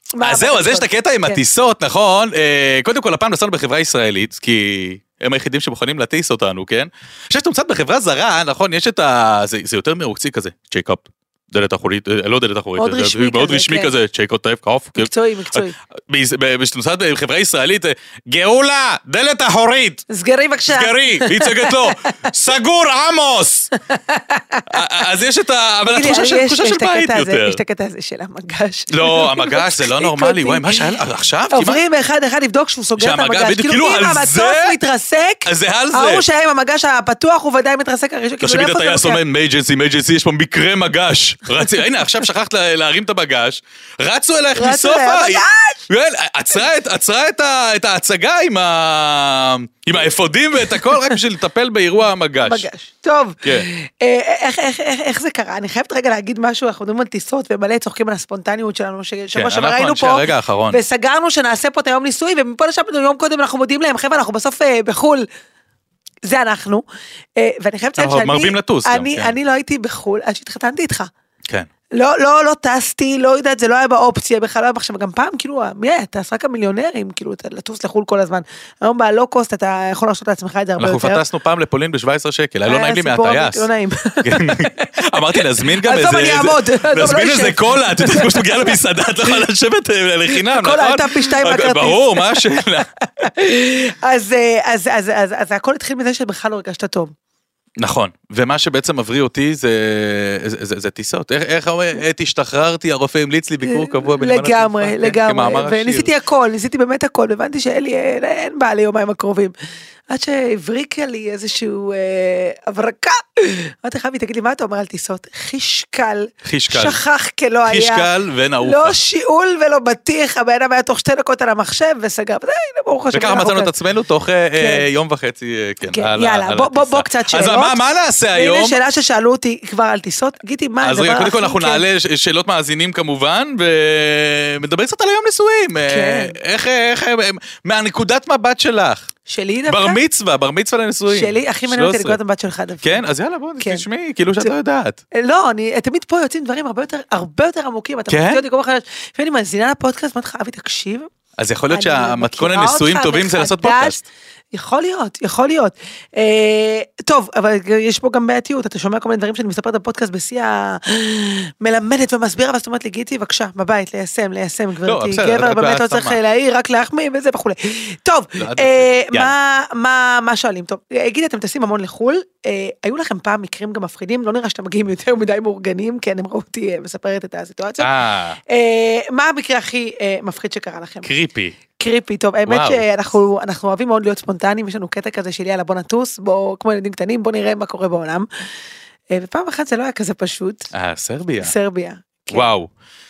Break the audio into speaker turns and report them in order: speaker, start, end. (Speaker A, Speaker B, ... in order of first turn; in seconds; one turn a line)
Speaker A: 0.1-1.4
Speaker B: 0.2-20.0
Speaker A: 12.8-13.9
Speaker A: 14.9-15.7
Speaker A: 20.1-22.2
Speaker B: 20.7-23.7
Speaker A: 23.8-24.8
Speaker B: 24.7-27.6
Speaker A: 25.9-30.9
Speaker B: 28.9-31.8
Speaker A: 31.5-39.2
Speaker B: 33.0-34.7
Speaker B: 35.4-36.2
Speaker B: 38.4-52.7
Speaker A: 44.5-45.9
Speaker A: 52.4-65.2
Speaker B: 59.3-60.8
Speaker A: 66.2-66.8
Speaker A: 67.3-71.1
Speaker B: 68.0-69.3
Speaker A: 71.9-81.2
Speaker B: 80.8-83.6
Speaker A: 82.7-88.8
Speaker B: 84.2-92.9
Speaker A: 90.3-97.1
Speaker B: 97.8-106.1
Speaker A: 103.6-109.5
Speaker A: 110.1-118.1
Speaker B: 116.4-117.0
Speaker B: 117.7-119.0
Speaker A: 118.6-123.7
Speaker B: 123.1-128.8
Speaker A: 124.6-124.9
Speaker A: 125.9-127.8
Speaker A: 128.3-131.8
Speaker B: 130.8-139.1
Speaker A: 135.8-136.4
Speaker A: 139.3-140.0
Speaker B: 139.7-142.2
Speaker A: 141.1-143.0
Speaker B: 142.8-145.0
Speaker A: 143.6-143.8
Speaker A: 145.1-151.1
Speaker B: 148.1-148.4
Speaker B: 151.4-154.0
Speaker A: 151.7-177.9
Speaker B: 164.8-166.2
Speaker B: 168.4-169.3
Speaker B: 177.8-178.4
Speaker A: 178.5-181.1
Speaker B: 181.0-181.6
Speaker A: 181.8-188.3
Speaker B: 182.4-182.8
Speaker A: 189.1-190.7
Speaker B: 190.7-191.5
Speaker A: 191.4-192.5
Speaker B: 192.3-192.7